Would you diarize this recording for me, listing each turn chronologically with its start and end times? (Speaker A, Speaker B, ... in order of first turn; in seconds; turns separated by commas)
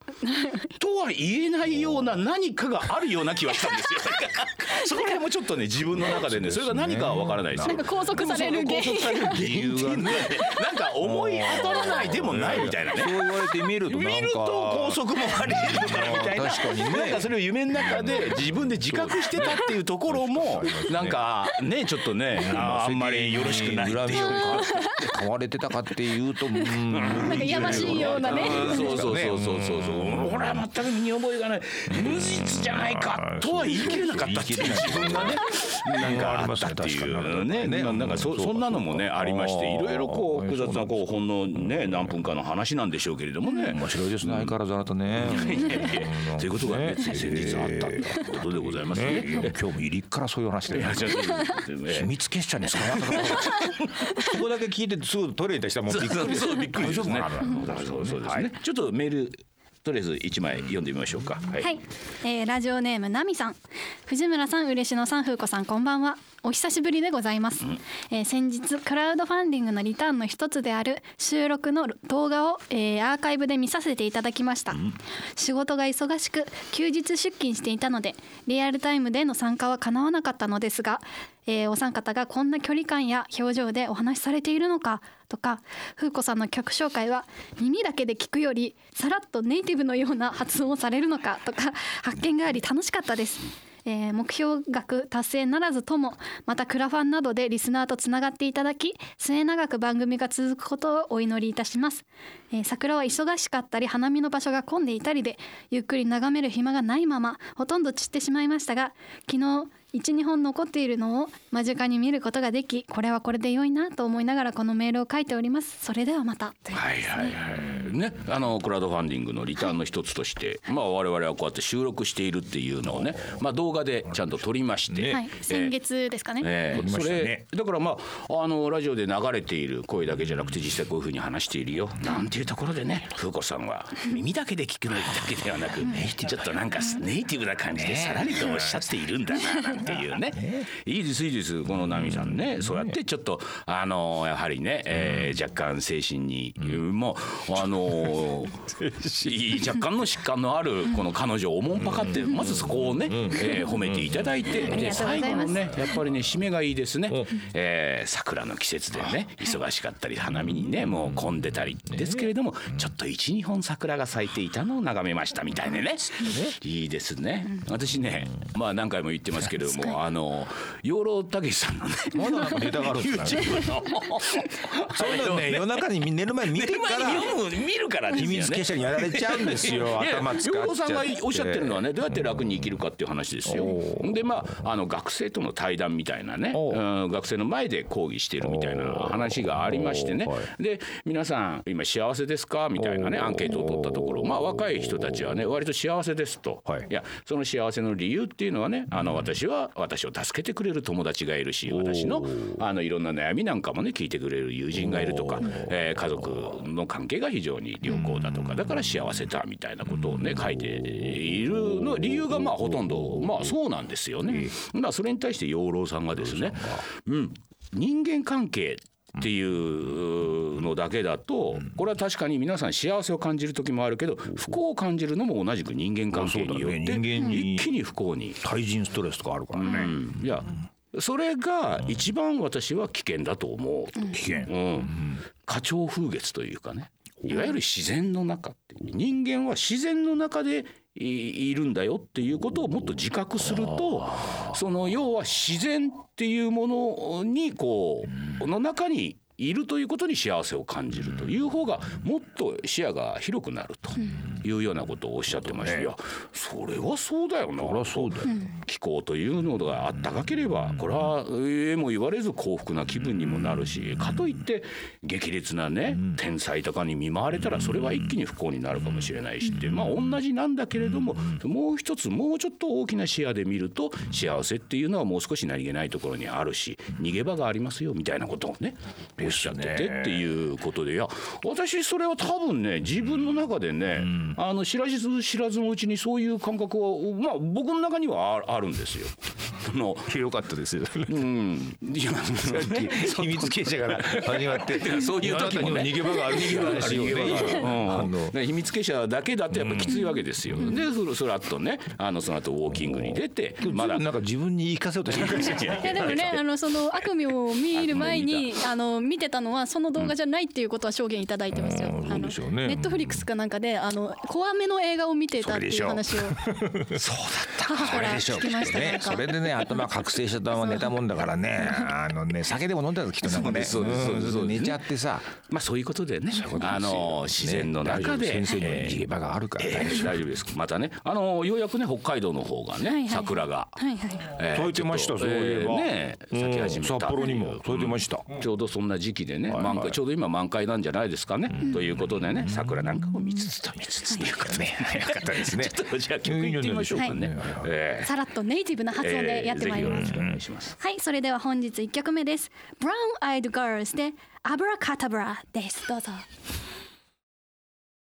Speaker A: 0.2-0.7, Speaker B: 0.8-25.2, Speaker C: 6.0-8.5, Speaker A: 7.6-9.4, Speaker C: 9.0-21.3, Speaker C: 22.3-30.6, Speaker A: 24.3-25.1, Speaker A: 26.5-29.1, Speaker B: 26.9-44.5, Speaker C: 31.9-41.1, Speaker C: 41.6-42.1, Speaker C: 43.7-58.5, Speaker B: 45.2-49.5, Speaker B: 50.7-52.1, Speaker B: 52.6-54.3, Speaker B: 55.9-61.8, Speaker A: 61.6-117.2, Speaker B: 116.7-125.8, Speaker C: 124.9-125.2, Speaker A: 125.1-126.8, Speaker B: 126.4-175.8, Speaker C: 126.7-127.4, Speaker C: 135.8-136.4, Speaker C: 137.8-138.8, Speaker C: 139.8-140.7, Speaker C: 141.8-143.0, Speaker C: 145.0-145.3, Speaker C: 148.8-149.3, Speaker C: 151.8-155.1, Speaker A: 154.5-155.7, Speaker C: 160.5-162.3, Speaker C: 166.2-166.5, Speaker C: 172.1-173.8, Speaker C: 174.9-177.4, Speaker B: 176.4-228.4, Speaker C: 178.1-182.6, Speaker C: 183.4-184.2, Speaker C: 186.5-186.8, Speaker C: 188.4-190.5, Speaker C: 192.8-195.2, Speaker C: 201.7-202.6, Speaker C: 204.8-205.7, Speaker C: 209.9-213.5, Speaker C: 214.3-214.6, Speaker C: 216.1-216.8, Speaker C: 226.1-227.7, Speaker C: 228.4-230.0, Speaker B: 229.5-290.1, Speaker C: 234.1-235.2, Speaker C: 255.5-255.9, Speaker C: 257.6-258.4, Speaker C: 267.6-267.9, Speaker C: 269.5-270.0, Speaker C: 270.9-271.4, Speaker C: 279.2-280.3, Speaker C: 284.0-284.4, Speaker C: 290.1-291.2, Speaker B: 291.1-304.1, Speaker C: 292.4-298.4, Speaker C: 299.5-300.0, Speaker C: 300.5-300.8, Speaker C: 302.8-306.4, Speaker B: 305.1-306.4, Speaker A: 305.5-316.4, Speaker B: 307.7-308.6, Speaker C: 311.5-313.2, Speaker C: 315.4-317.0, Speaker B: 316.9-319.0, Speaker A: 317.6-319.9, Speaker C: 317.7-325.3, Speaker A: 320.5-321.0, Speaker B: 323.2-324.8, Speaker B: 325.4-329.0, Speaker C: 326.3-330.2, Speaker B: 329.6-348.1, Speaker A: 332.8-334.3, Speaker C: 334.4-338.3, Speaker C: 339.5-340.0, Speaker C: 341.6-347.7, Speaker A: 348.0-350.1, Speaker B: 349.0-350.8, Speaker C: 349.9-350.4, Speaker A: 350.8-356.2